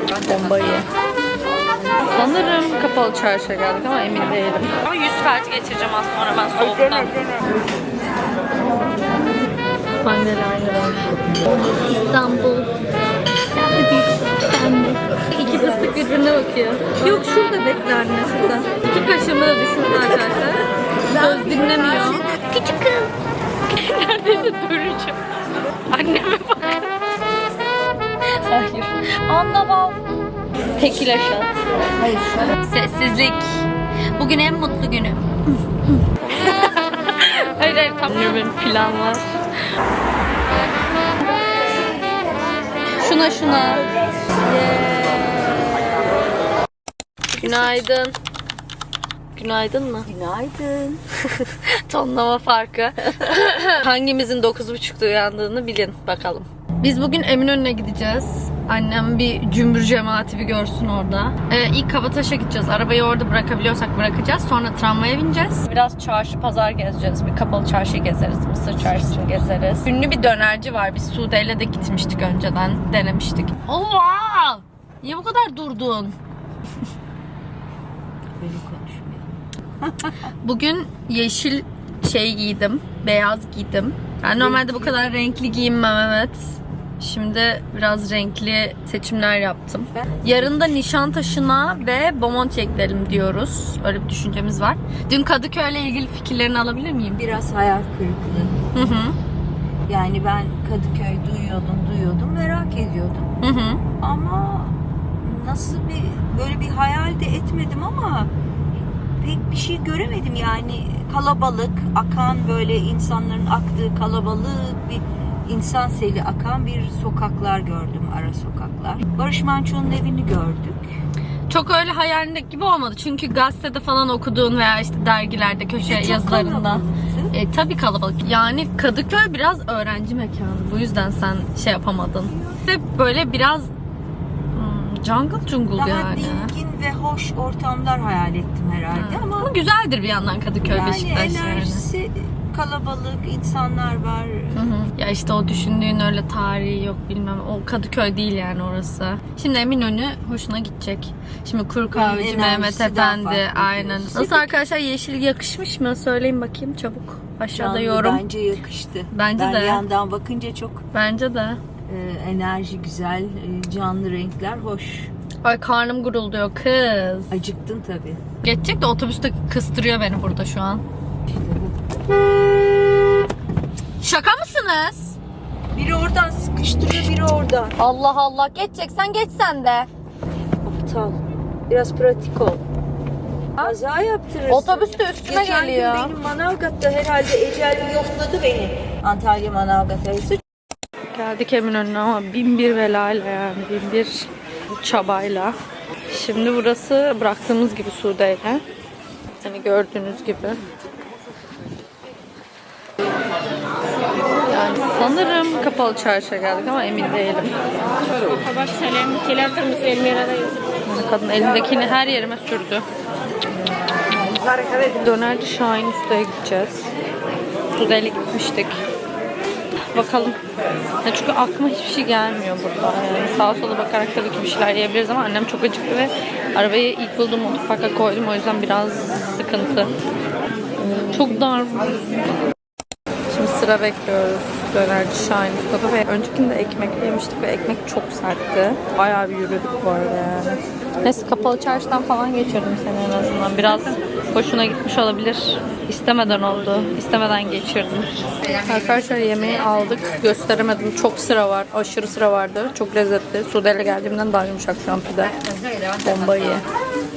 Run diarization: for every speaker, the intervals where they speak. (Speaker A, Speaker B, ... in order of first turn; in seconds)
Speaker A: 0.2-0.9, 2.0-7.2, 10.0-11.1, 11.8-12.7, 13.5-23.1, 23.7-25.2, 25.9-26.9, 28.4-30.0, 30.8-31.6, 32.6-39.3, 43.0-46.2, 47.4-48.1, 49.3-50.1, 50.7-76.2, 80.4-97.2, 98.7-99.2, 103.4-103.8, 121.5-133.7, 134.5-136.5, 138.9-141.8, 144.5-158.2, 159.1-159.8, 160.9-161.6, 165.4-167.3, 168.4-170.8, 174.0-175.2, 177.8-179.9, 184.5-186.2, 191.1-195.6, 196.1-198.6, 199.4-200.6, 204.5-207.6, 210.8-212.8, 214.7-216.9, 217.7-218.8, 219.9-220.4, 221.0-229.9, 230.8-232.2, 233.3-255.4, 256.0-256.6
Speaker B: 7.1-7.4, 32.0-32.5, 47.3-47.9, 50.1-50.9, 69.0-69.3, 78.4-80.1, 84.3-85.2, 89.9-90.8, 97.2-98.6, 99.9-103.3, 104.0-108.3, 109.2-120.9, 125.8-127.3, 135.7-139.5, 140.6-144.6, 151.9-154.6, 157.5-160.8, 161.9-165.1, 167.3-168.2, 171.3-171.8, 175.7-177.7, 180.6-182.6, 183.6-190.4
Speaker C: 208.1-210.6